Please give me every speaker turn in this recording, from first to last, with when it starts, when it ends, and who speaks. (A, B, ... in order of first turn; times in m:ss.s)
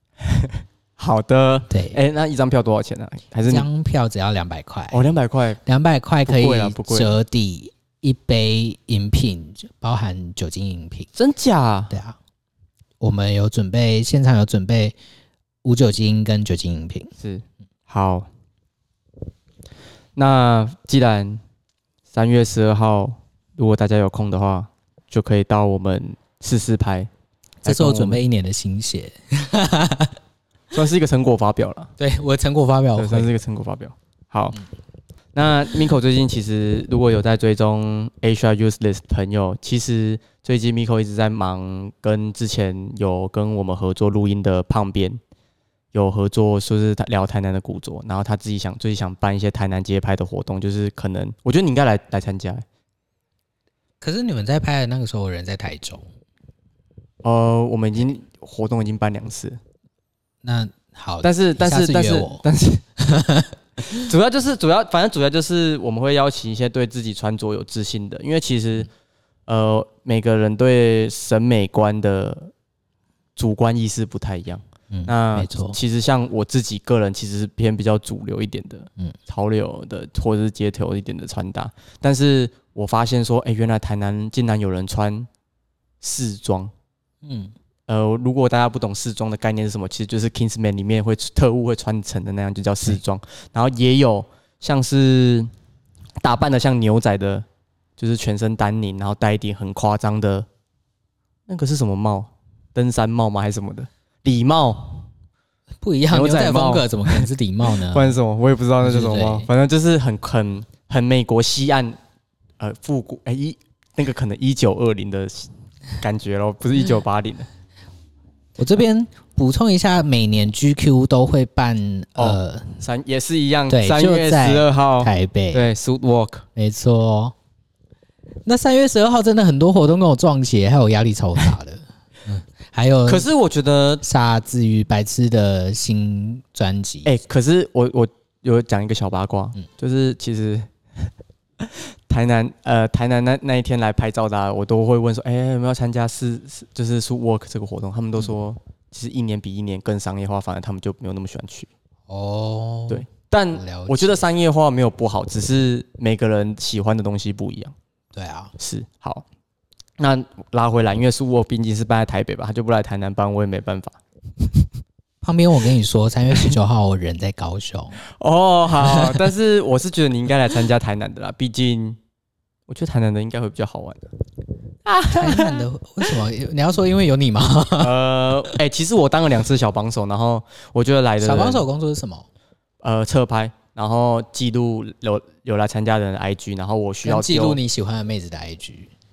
0:00.2-0:03.7 A
0:01.7-0:02.0 B
0:03.5-0:05.0 B
0:04.9-0:05.6 A
0:05.6-0:11.1 B
0:06.3-0:07.2 A
0:11.2-0:12.0 A
0:11.9-0:12.2 B
0:13.0-0:15.0 B
0:15.6-0:17.1 B
0:17.2-0:18.3 A
0:20.2-0:21.4 A
0:22.1-0:27.1 A
0:27.6-0:28.2 A
0:27.6-0:30.2 B
0:30.7-0:31.9 A
0:32.0-0:33.3 B
0:33.0-0:34.6 A
0:35.3-0:45.2 A
0:45.9-0:52.6 A
0:54.0-0:56.0 B
0:57.2-0:59.6 A
1:00.4-1:02.4 B
1:01.2-1:02.8 A
1:03.0-1:04.0 B
1:03.9-1:08.9 A
1:09.5-1:12.5 A
1:13.4-1:25.3 A
1:14.9-1:15.8 B
1:26.0-1:26.7 A
1:27.2-1:27.5 B
1:27.9-1:35.5 A
1:36.2-1:37.4 A
1:38.0-1:40.5 A
1:41.5-1:45.1 A
1:45.8-1:48.2 B
1:46.1-1:47.3 A
1:47.9-1:52.0 A
1:48.8-1:49.5 B
1:52.6-1:57.5 A
1:58.6-2:02.8 B
2:02.2-2:06.4 A
2:03.7-2:05.6 B
2:06.6-2:07.4 B
2:08.4-2:13.3 B
2:13.1-2:14.0 A
2:14.0-2:17.1 B
2:17.0-2:20.7 A
2:21.6-2:31.7 A
2:32.1-2:34.3 B
2:32.9-2:37.8 A
2:38.1-2:38.5 B
2:38.6-2:39.2 A
2:40.0-2:44.0 A
2:45.2-2:48.0 B
2:48.1-2:52.0 A
2:48.8-2:49.2 B
2:52.7-2:54.1 A
2:54.9-2:55.6 A
2:55.1-2:58.6 B
2:57.8-3:01.6 A
3:01.2-3:02.3 B
3:02.8-3:07.6 A
3:07.0-3:08.9 B